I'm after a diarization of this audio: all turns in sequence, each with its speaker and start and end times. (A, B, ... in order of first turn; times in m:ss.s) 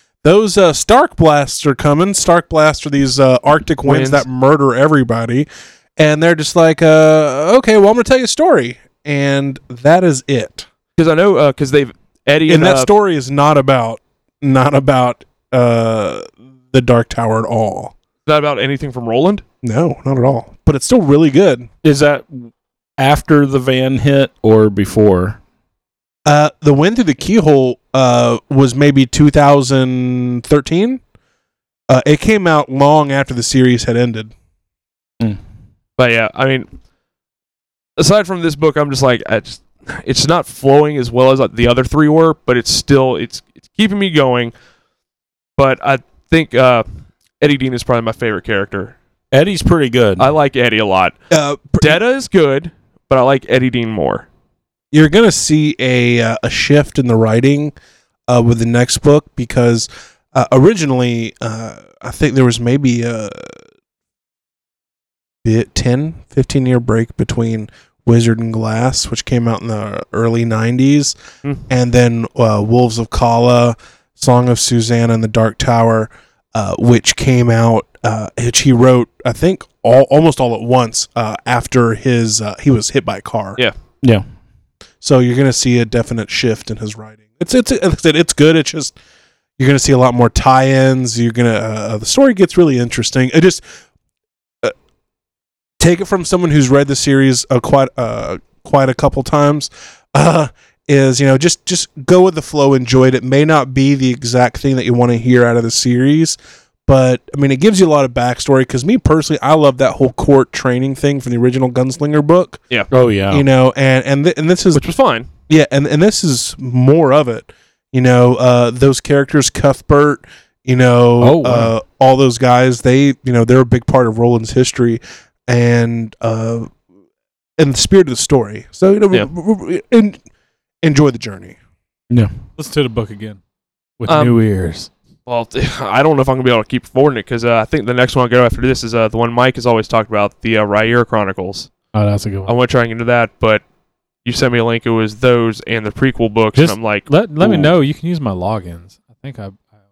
0:00.2-0:10.7 A
0:03.9-0:04.2 B
0:11.0-0:12.9 B
0:12.5-0:17.9 A
0:18.3-0:19.4 B
0:19.6-0:21.7 A
0:21.8-0:25.4 C
0:26.3-0:31.0 A
0:31.9-0:34.3 A
0:36.0-0:36.7 B
0:38.0-0:44.5 B
0:45.6-0:46.8 B
0:47.4-0:49.0 B
0:49.3-0:50.3 C
0:50.2-0:51.2 B
0:51.3-0:52.0 A
0:51.8-0:54.3 B
0:54.9-0:57.8 A
0:58.3-1:03.6 A
1:05.4-1:11.2 A
1:11.7-1:23.6 A
1:25.0-1:28.9 A
1:29.6-1:33.6 A
1:35.8-1:52.6 A
1:52.9-1:53.4 C
1:53.3-1:54.8 A
1:54.7-1:55.3 B
1:55.5-2:06.7 A
2:01.2-2:01.7 D
2:07.6-2:10.2 A
2:10.8-2:11.6 A
2:12.6-2:13.4 D
2:14.0-2:14.9 D
2:14.1-2:14.4 B
2:15.3-2:21.7 B
2:21.9-2:22.5 D
2:22.5-2:23.6 B
2:24.2-2:27.1 B
2:26.6-2:29.6 D
2:27.4-2:27.7 C